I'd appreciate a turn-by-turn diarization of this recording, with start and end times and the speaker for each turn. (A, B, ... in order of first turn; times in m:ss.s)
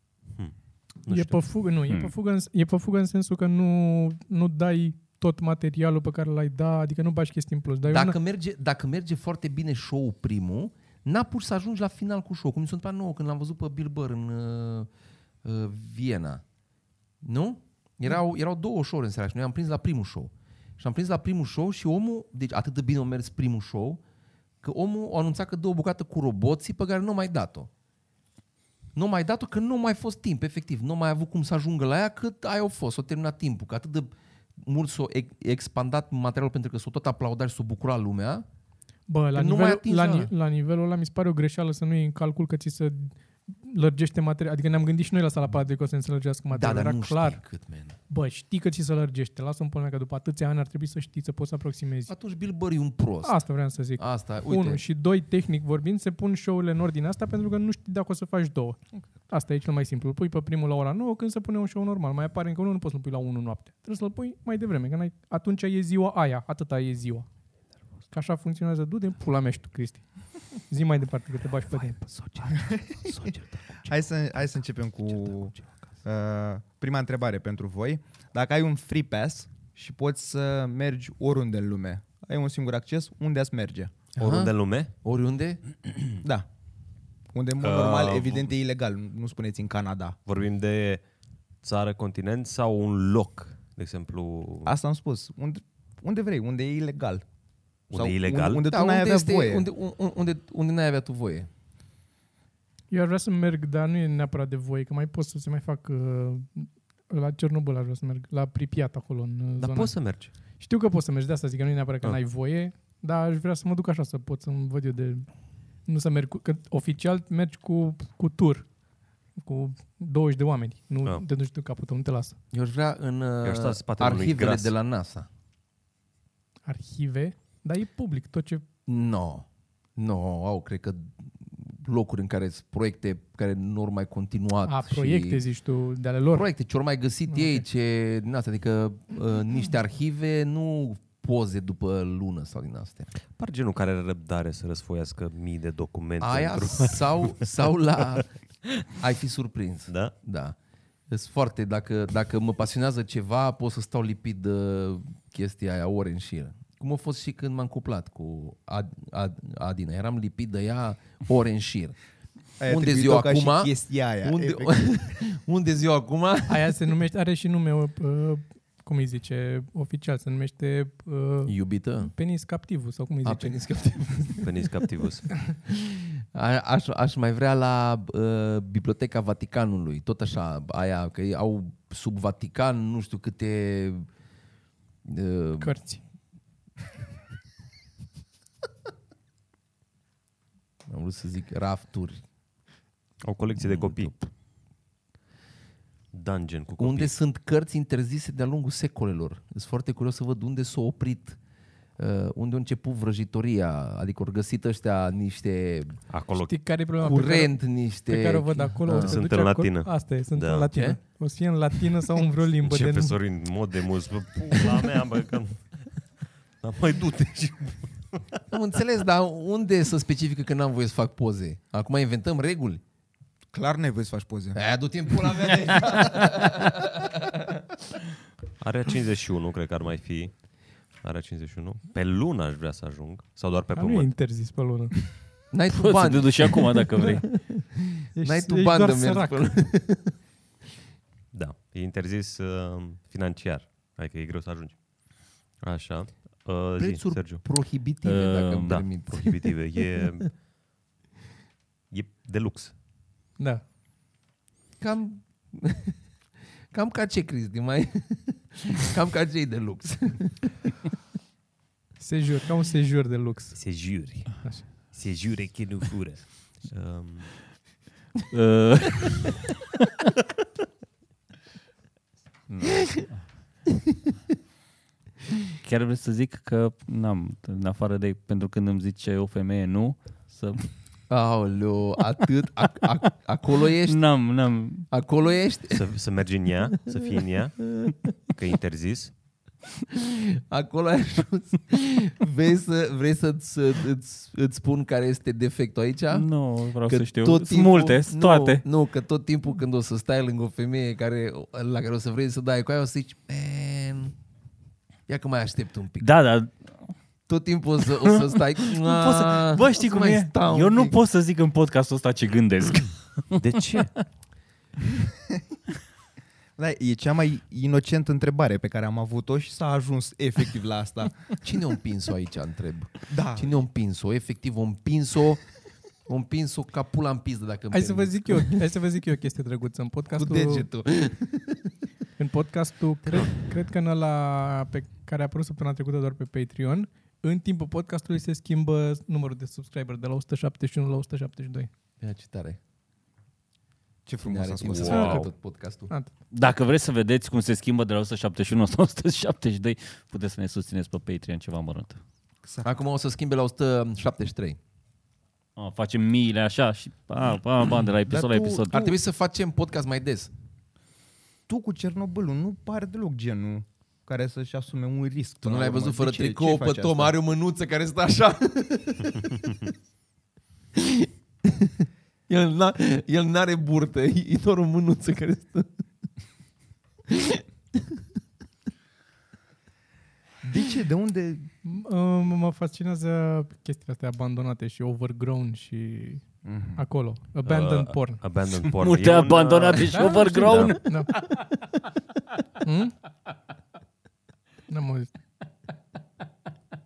0:00.3-0:01.4 A
0:01.1-0:08.2 B
0:07.8-0:14.9 C
0:15.4-0:16.4 C
0:17.2-0:24.0 C
0:24.6-0:27.7 C
0:29.0-0:38.4 C
0:39.1-0:47.4 B
0:39.3-0:40.3 C
0:46.5-0:48.0 C
0:48.1-0:52.1 B
0:52.1-0:53.4 C
0:53.2-1:07.3 B
0:54.0-0:54.8 C
1:08.1-1:12.0 B
1:11.8-1:14.4 C
1:13.9-1:24.1 D
1:15.1-1:15.9 C
1:24.2-1:25.6 C
1:24.2-1:24.9 A
1:27.3-1:30.2 D
1:27.6-1:28.5 A
1:30.3-1:31.0 A
1:31.6-1:34.7 A
1:34.7-1:37.2 D
1:37.9-1:38.7 A
1:37.9-1:39.7 D
1:38.6-1:41.5 C
1:42.9-1:50.0 B
1:49.6-1:50.3 A
1:50.6-1:55.3 B
1:55.8-1:58.7 B
1:59.4-2:02.4 B
2:02.5-2:05.3 C
2:03.4-2:04.7 A
2:06.7-2:08.6 B
2:08.9-2:15.4 C
2:14.7-2:16.5 B
2:16.3-2:23.1 C
2:17.3-2:17.6 B
2:23.3-2:27.4 A
2:26.2-2:28.3 C
2:29.0-2:30.6 C
2:29.9-2:30.2 A
2:31.1-2:42.0 C
2:42.6-2:45.0 D
2:42.7-2:46.7 C
2:46.5-2:53.6 B
2:51.5-2:52.1 C
2:53.2-2:54.7 C
2:54.4-2:55.4 A
2:55.4-3:04.1 C
3:05.0-3:05.8 C
3:05.6-3:06.0 B
3:10.9-3:12.2 C
3:13.2-3:14.2 A
3:13.6-3:14.2 C
3:16.1-3:17.1 A
3:16.8-3:21.4 C
3:22.0-3:26.0 C
3:26.1-3:26.7 A
3:26.4-3:33.2 B
3:27.0-3:29.2 C
3:28.9-3:30.7 A
3:30.7-3:31.0 C
3:32.6-3:35.9 A
3:36.6-3:38.4 A
3:38.5-3:42.8 C
3:43.5-3:44.6 D
3:44.6-3:47.6 C
3:48.6-3:54.2 A
3:53.8-3:55.2 B
3:55.5-3:56.7 C
3:55.7-3:57.4 E
3:57.7-4:00.2 C
3:58.2-3:59.5 B
4:01.3-4:04.8 A
4:05.6-4:07.4 A
4:06.8-4:10.1 C
4:08.0-4:08.8 E
4:08.7-4:10.3 A
4:11.9-4:12.8 A
4:14.8-4:16.0 C
4:16.7-4:20.7 C
4:22.0-4:23.6 B
4:23.5-4:27.3 A
4:28.3-4:29.4 E
4:32.5-4:33.2 E
4:35.6-4:40.7 E
4:41.1-4:44.0 C
4:43.8-4:44.9 E
4:44.9-4:45.9 C
4:45.7-4:47.6 A
4:46.9-4:48.0 C
4:48.3-4:49.1 A
4:49.9-4:56.3 C
4:56.1-4:58.6 E
4:56.8-5:04.2 C
5:05.1-5:06.1 C
5:06.0-5:06.5 E
5:07.3-5:11.0 C
5:07.9-5:13.6 E
5:13.4-5:13.9 A
5:16.6-5:21.2 D
5:21.4-5:28.6 C
5:23.1-5:23.6 D
5:27.7-5:30.7 B
5:30.2-5:31.7 C
5:32.2-5:41.7 B
5:42.0-5:42.6 C
5:44.1-5:45.2 D
5:44.2-5:45.9 C
5:44.8-5:45.1 A
5:44.8-5:45.3 B
5:46.3-5:52.0 E
5:52.4-5:52.7 D
5:52.6-5:54.6 C
5:55.6-5:58.9 E
5:58.1-5:58.9 D
5:58.7-6:00.3 C
6:01.5-6:07.2 D
6:05.4-6:09.6 C
6:10.8-6:11.7 C
6:12.3-6:15.7 C
6:17.1-6:17.8 C
6:20.4-6:21.5 D
6:21.6-6:26.2 B
6:26.4-6:26.8 D
6:26.8-6:28.2 B
6:27.4-6:30.8 A
6:28.7-6:31.4 E
6:29.9-6:31.2 B
6:32.6-6:33.0 B
6:34.7-6:35.2 B